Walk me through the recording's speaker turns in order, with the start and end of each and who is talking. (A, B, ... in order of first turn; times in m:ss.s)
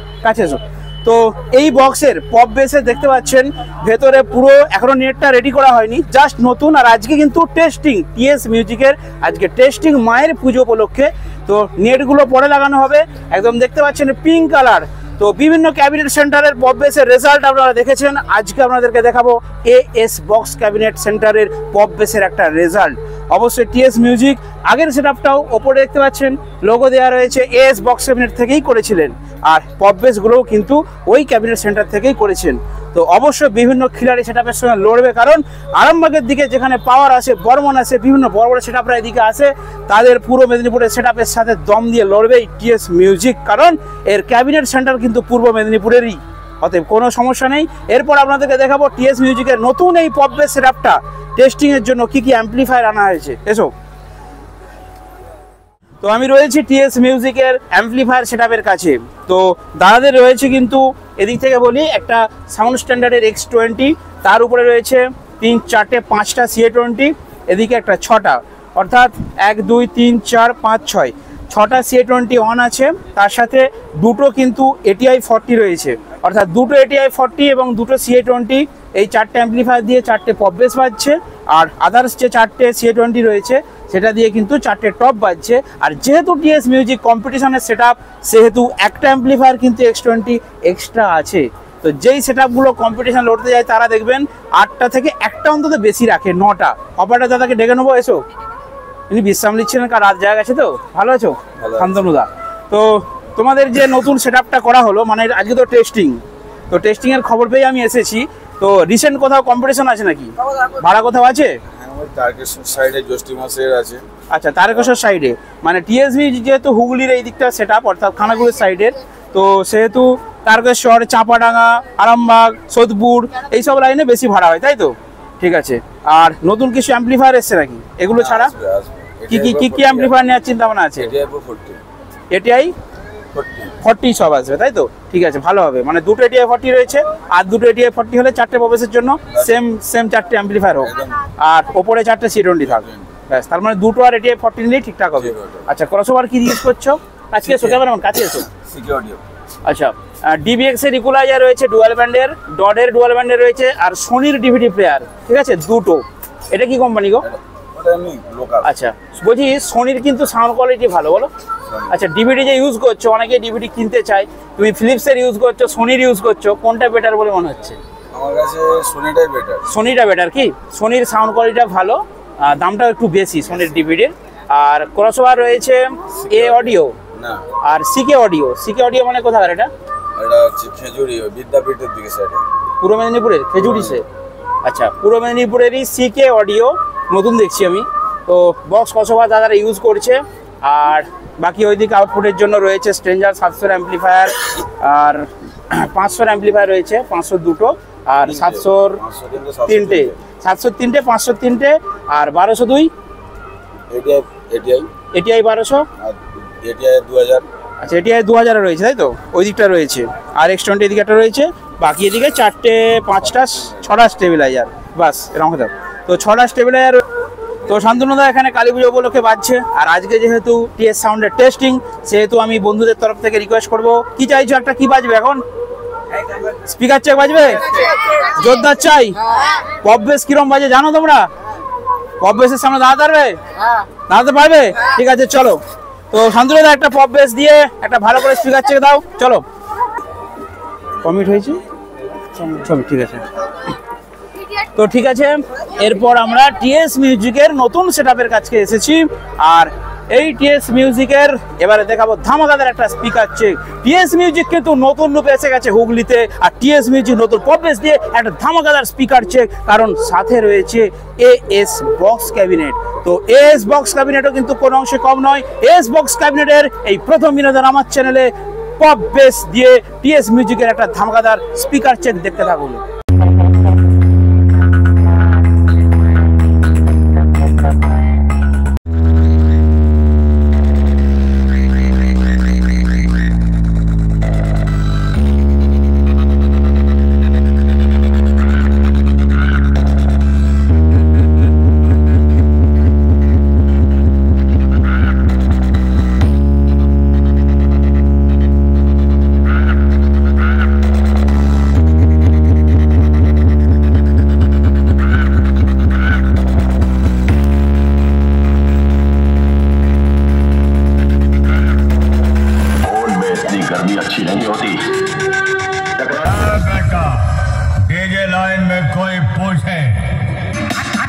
0:00.2-0:53.7 A
0:56.0-1:38.2 A
1:39.1-1:51.6 A
1:41.6-1:42.0 B
1:51.8-1:54.0 B
1:54.3-2:08.5 A
2:08.2-2:10.2 B
2:09.3-2:11.1 A
2:11.0-2:11.8 B
2:12.3-2:12.7 A
2:13.3-2:13.8 B
2:13.8-2:28.5 A
2:20.8-2:21.2 B
2:22.7-2:23.1 B
2:25.2-2:25.7 B
2:27.4-2:27.8 B
2:28.6-2:29.2 B
2:29.6-2:37.2 A
2:37.2-2:38.7 B
2:38.6-2:41.3 A
2:41.7-2:42.0 B
2:41.9-2:47.8 A
2:48.1-2:49.6 B
2:49.7-2:57.0 A
2:56.3-2:57.4 B
2:57.6-2:59.7 A
3:00.2-3:02.4 B
3:02.8-3:04.1 A
3:03.6-3:04.0 B
3:04.6-3:19.0 A
3:18.2-3:20.2 B
3:19.7-3:22.9 A
3:23.9-3:24.9 B
3:25.1-3:25.9 A
3:26.0-3:27.4 B
3:27.8-3:37.0 A
3:37.7-3:45.4 A
3:46.5-3:51.3 A
3:52.2-3:53.4 A
3:54.1-3:59.4 A
4:01.0-4:01.6 A
4:02.3-4:03.3 A
4:04.7-4:32.8 A
5:13.0-5:14.9 C
5:15.9-5:20.2 D